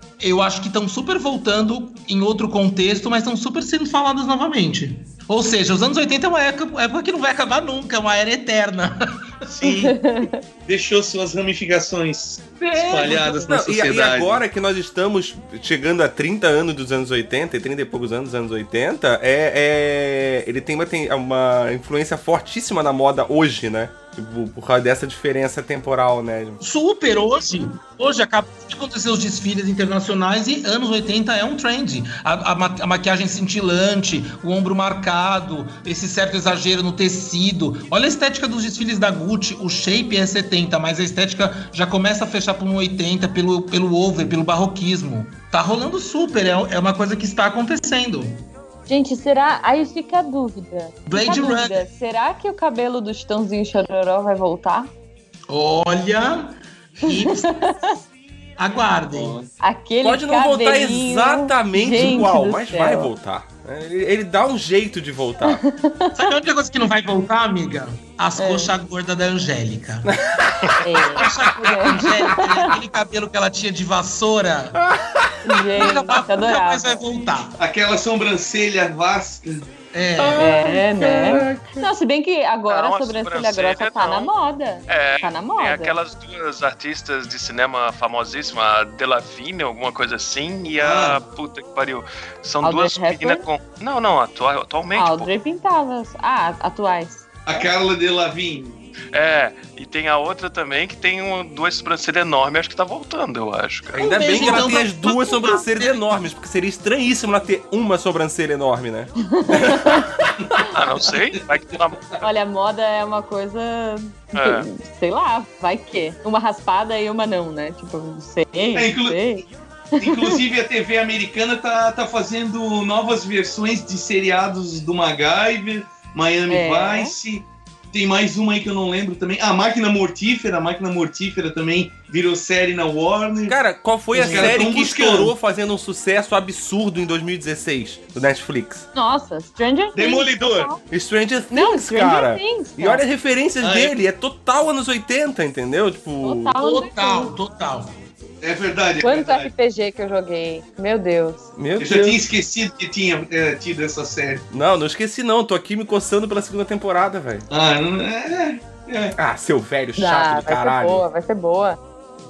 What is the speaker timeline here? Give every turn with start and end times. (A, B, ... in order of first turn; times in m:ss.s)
0:00.2-0:09.5 A
0:09.5-0:10.0 B
0:09.6-0:10.4 C
0:10.7-0:14.4 B
0:12.6-0:13.4 A
0:13.5-0:26.6 D
0:26.6-0:48.5 A
0:48.9-0:54.9 C
0:51.1-0:51.8 A
0:55.5-0:57.7 A
0:57.1-0:58.0 C
0:58.6-0:59.4 A
0:59.1-0:59.5 B
0:59.6-1:03.1 C
1:00.0-1:05.6 D
1:05.4-1:06.3 C
1:06.2-1:10.1 A
1:08.4-1:08.7 C
1:10.1-1:10.6 D
1:10.8-1:12.6 C
1:11.2-1:14.8 A
1:14.8-1:15.3 D
1:15.4-1:17.0 C
1:15.8-1:17.5 A
1:17.6-1:19.7 B
1:19.9-1:20.6 A
1:20.2-1:21.9 D
1:20.4-1:26.0 C
1:22.7-1:24.3 E
1:24.9-1:35.3 E
1:30.8-1:31.2 B
1:32.6-1:33.4 C
1:35.0-1:37.2 C
1:37.5-1:38.8 B
1:39.1-1:44.0 E
1:44.0-1:46.0 A
1:44.0-1:50.3 D
1:49.3-1:50.1 C
1:50.5-1:51.1 B
1:50.7-1:52.1 E
1:52.2-2:00.4 C
1:54.3-1:54.7 E
1:58.8-1:59.2 B
2:00.0-2:13.6 B
2:06.5-2:07.1 C
2:13.5-2:18.9 D
2:14.1-2:15.3 B
2:14.2-2:14.5 A
2:18.9-2:20.8 C
2:20.0-2:20.7 B
2:20.9-2:26.5 D
2:21.5-2:23.0 C
2:23.6-2:24.0 B
2:26.2-2:27.3 C
2:26.6-2:28.0 A
2:28.4-2:29.5 B
2:29.0-2:31.5 C
2:31.6-2:32.2 D
2:31.8-2:34.5 B
2:34.5-2:37.5 D
2:37.5-2:39.2 B
2:39.2-2:41.0 D
2:40.0-2:41.8 C